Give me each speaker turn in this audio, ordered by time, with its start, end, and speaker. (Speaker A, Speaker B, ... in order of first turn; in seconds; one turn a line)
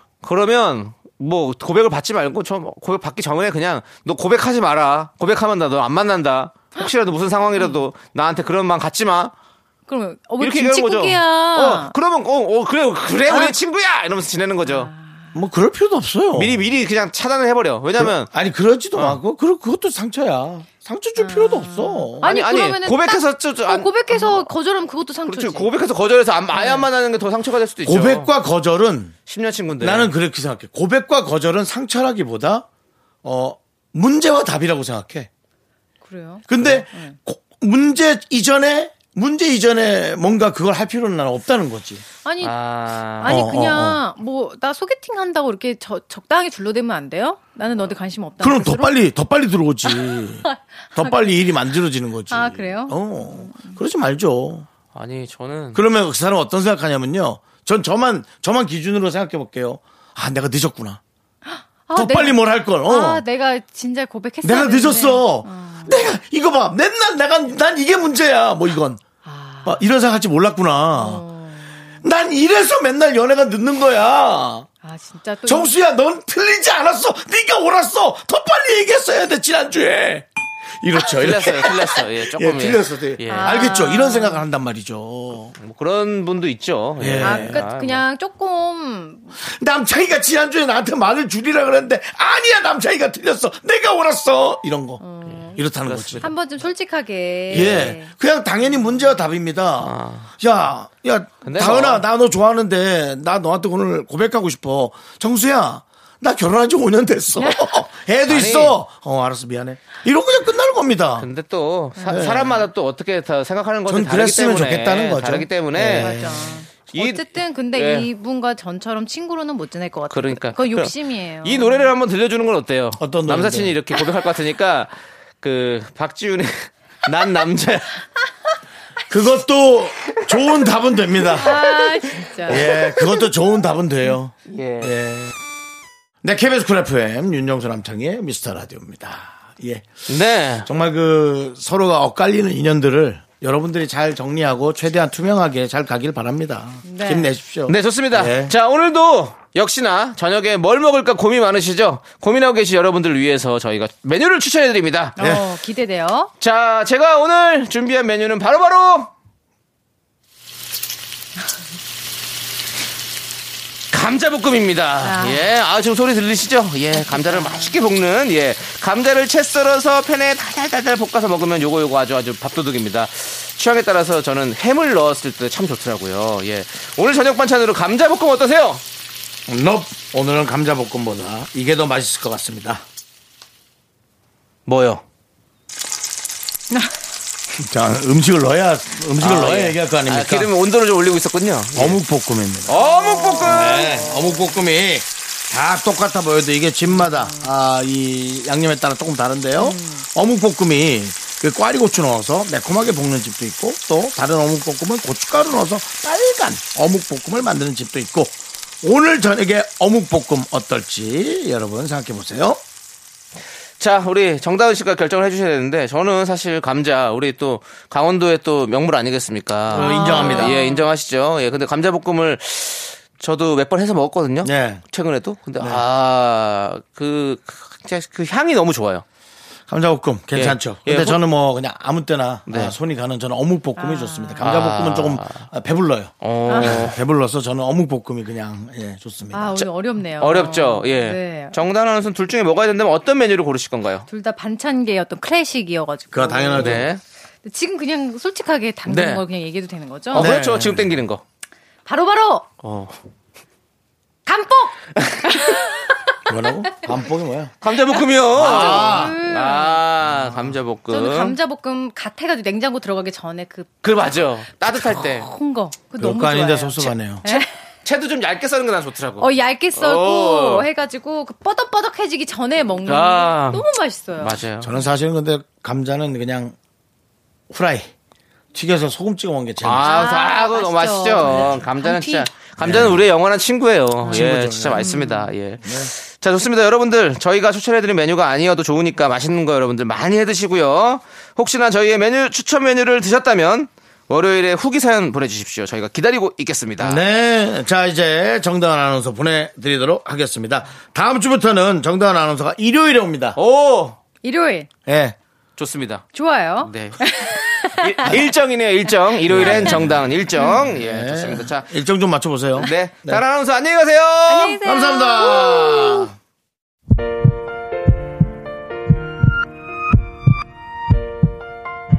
Speaker A: 0.2-9.3
Speaker B: 7.5-7.9
Speaker B: 9.9-11.9
Speaker A: 10.4-14.9
Speaker B: 13.3-13.6
Speaker B: 14.7-15.3
Speaker C: 15.3-16.6
Speaker A: 16.4-18.3
Speaker C: 18.0-22.4
Speaker B: 21.2-25.7
Speaker A: 22.2-24.5
Speaker A: 25.3-28.3
Speaker B: 26.5-26.9
Speaker C: 27.9-29.1
Speaker A: 29.3-30.1
Speaker C: 29.8-32.7
Speaker C: 33.2-35.3
Speaker B: 36.0-37.2
Speaker C: 36.5-42.0
Speaker B: 42.2-42.5
Speaker A: 42.4-43.4
Speaker B: 43.2-49.0
Speaker C: 43.3-44.0
Speaker C: 48.4-54.7
Speaker B: 49.9-51.3
Speaker B: 52.3-53.8
Speaker A: 54.9-55.8
Speaker C: 55.7-61.0
Speaker B: 61.5-66.0
Speaker C: 62.0-63.2
Speaker C: 64.4-69.0
Speaker B: 69.2-69.8
Speaker C: 69.7-71.2
Speaker B: 71.0-72.0
Speaker C: 72.0-74.7
Speaker B: 74.8-75.7
Speaker C: 75.5-80.3
Speaker C: 80.8-85.6
Speaker A: 81.0-83.7
Speaker B: 83.3-84.4
Speaker A: 85.6-88.0
Speaker C: 87.0-87.7
Speaker B: 87.2-89.3
Speaker C: 89.4-96.3
Speaker B: 95.0-95.6
Speaker A: 95.3-96.3
Speaker B: 96.2-98.1
Speaker A: 97.5-98.0
Speaker C: 97.5-111.3
Speaker A: 99.8-100.3
Speaker A: 101.4-102.1
Speaker B: 107.4-107.7
Speaker A: 108.3-108.8
Speaker A: 111.2-116.2
Speaker B: 112.0-112.2
Speaker C: 112.1-112.7
Speaker C: 113.9-116.6
Speaker B: 115.8-121.9
Speaker A: 116.9-118.1
Speaker A: 120.1-128.0
Speaker C: 123.0-123.8
Speaker C: 129.1-131.8
Speaker B: 131.3-133.3
Speaker C: 132.4-135.3
Speaker A: 134.5-134.9
Speaker C: 136.2-139.9
Speaker A: 140.1-140.7
Speaker C: 140.7-148.5
Speaker B: 146.8-147.3
Speaker A: 147.7-155.2
Speaker B: 155.2-156.3
Speaker C: 155.2-155.5
Speaker A: 156.4-159.1
Speaker A: 163.9-178.8
Speaker B: 165.0-165.5
Speaker B: 166.9-167.7
Speaker C: 179.5-182.8
Speaker A: 184.7-185.0
Speaker C: 187.5-190.5
Speaker A: 189.2-192.0
Speaker C: 191.8-192.7
Speaker A: 192.7-194.0
Speaker B: 192.7-194.5
Speaker C: 193.4-212.6
Speaker B: 197.0-197.5
Speaker B: 199.6-200.1
Speaker A: 213.8-229.0
Speaker C: 219.7-220.5
Speaker B: 219.7-220.9
Speaker C: 224.4-224.8
Speaker C: 229.7-239.6
Speaker A: 230.3-231.2
Speaker A: 232.5-232.8
Speaker B: 233.8-234.5
Speaker A: 234.4-235.5
Speaker A: 236.2-237.0
Speaker B: 236.5-236.9
Speaker B: 239.3-241.6
Speaker A: 239.6-244.1
Speaker B: 244.1-246.9
Speaker C: 246.1-246.8
Speaker A: 246.6-247.0
Speaker B: 247.4-250.3
Speaker A: 248.9-249.2
Speaker C: 250.1-250.9
Speaker A: 250.1-251.2
Speaker B: 251.8-252.5
Speaker A: 252.6-253.0
Speaker B: 254.3-255.9
Speaker A: 255.0-255.4
Speaker C: 256.3-257.5
Speaker A: 257.6-261.4
Speaker C: 258.3-259.2
Speaker B: 258.4-259.8
Speaker B: 260.9-263.8
Speaker A: 263.8-265.3
Speaker B: 264.8-267.5
Speaker C: 266.0-267.3
Speaker A: 267.3-270.7
Speaker B: 269.2-274.4
Speaker A: 272.9-273.6
Speaker A: 274.2-274.7
Speaker C: 274.6-276.6
Speaker C: 277.5-277.9
Speaker C: 278.5-280.1
Speaker A: 279.6-297.0
Speaker B: 279.7-282.3
Speaker C: 281.3-281.6
Speaker C: 282.6-283.1
Speaker B: 284.1-285.3
Speaker C: 284.1-285.0
Speaker C: 285.6-285.9
Speaker C: 296.8-303.4
Speaker A: 303.4-304.0
Speaker B: 304.2-304.7
Speaker C: 304.9-305.2
Speaker A: 305.6-306.1
Speaker B: 306.1-308.2
Speaker A: 306.6-307.1
Speaker A: 307.7-311.7
Speaker B: 309.2-310.6
Speaker C: 309.3-313.2
Speaker A: 312.6-314.6
Speaker B: 314.3-316.1
Speaker C: 314.6-316.1